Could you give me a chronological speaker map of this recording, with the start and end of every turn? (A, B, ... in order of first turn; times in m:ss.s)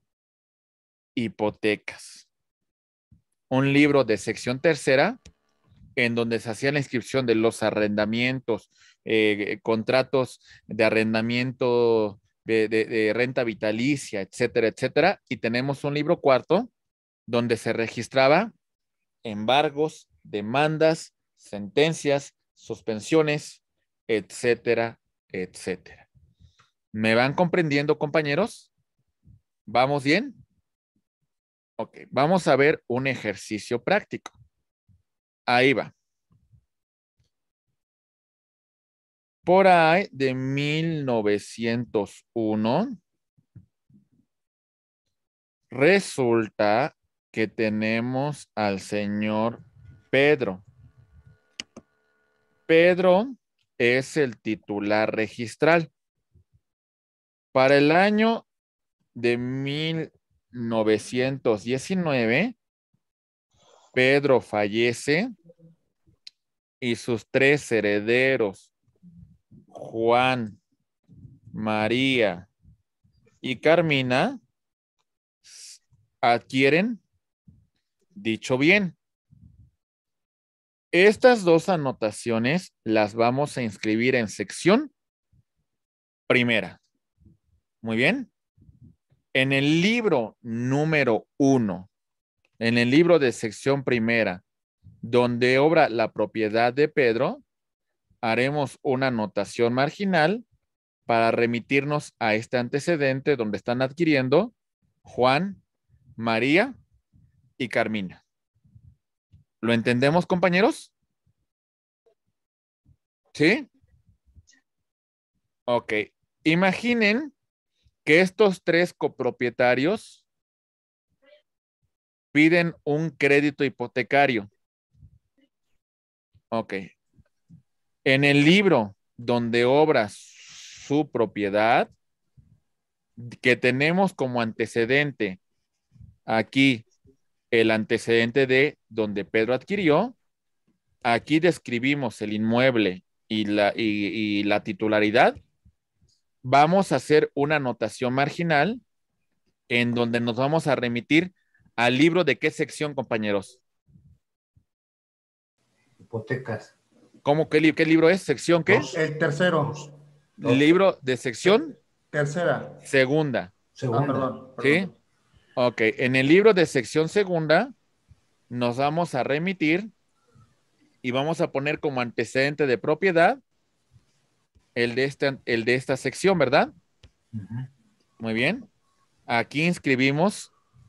0:01.2-0:02.3 A
0:03.5-0:05.2 A
0:06.0-0:16.7 A
0:17.3-0:18.5 A
0:19.2-0:26.1 A
0:26.9-0:28.7 A
0:29.7-0:30.4 A
0:31.8-0:34.4 A
0:35.5-0:35.9 A
0:39.4-0:43.0 A
0:45.7-0:50.6 A
0:52.7-0:55.9 A
0:57.5-0:58.4 A
0:59.1-1:02.6 A
1:03.9-1:05.3 A
1:06.8-1:08.7 A
1:09.7-1:10.6 A
1:11.5-1:12.5 A
1:13.4-1:14.4 A
1:15.4-1:17.0 A
1:18.2-1:19.0 A
1:20.9-1:24.9 A
1:26.3-1:26.8 A
1:27.8-1:28.3 A
1:29.3-1:31.9 A
1:32.6-1:34.4 A
1:35.0-1:37.4 A
1:38.2-1:40.4 A
1:41.1-1:44.5 A
1:45.0-1:45.6 A
1:46.2-1:46.7 A
1:47.6-1:48.2 A
1:49.6-1:50.9 A
1:53.3-1:53.7 A
1:55.7-1:57.3 A
1:58.0-2:00.2 A
2:02.3-2:04.5 A
2:06.5-2:06.9 A
2:08.0-2:11.9 A
2:13.2-2:15.4 A
2:16.3-2:16.9 A
2:17.5-2:20.2 A
2:21.0-2:25.4 A
2:26.4-2:28.8 A
2:29.7-2:33.6 A
2:36.0-2:36.7 B
2:37.2-2:38.9 A
2:38.6-2:39.0 B
2:38.9-2:39.8 C
2:40.4-2:41.8 A
2:42.1-2:42.8 C
2:42.8-2:43.5 A
2:43.7-2:44.3 B
2:43.9-2:44.9 C
2:44.6-2:44.9 A
2:45.6-2:47.7 A
2:48.5-2:49.9 A
2:51.0-2:53.4 A
2:54.7-2:56.7 A
2:57.3-2:57.7 B
2:58.2-2:58.7 A
2:59.3-3:00.5 A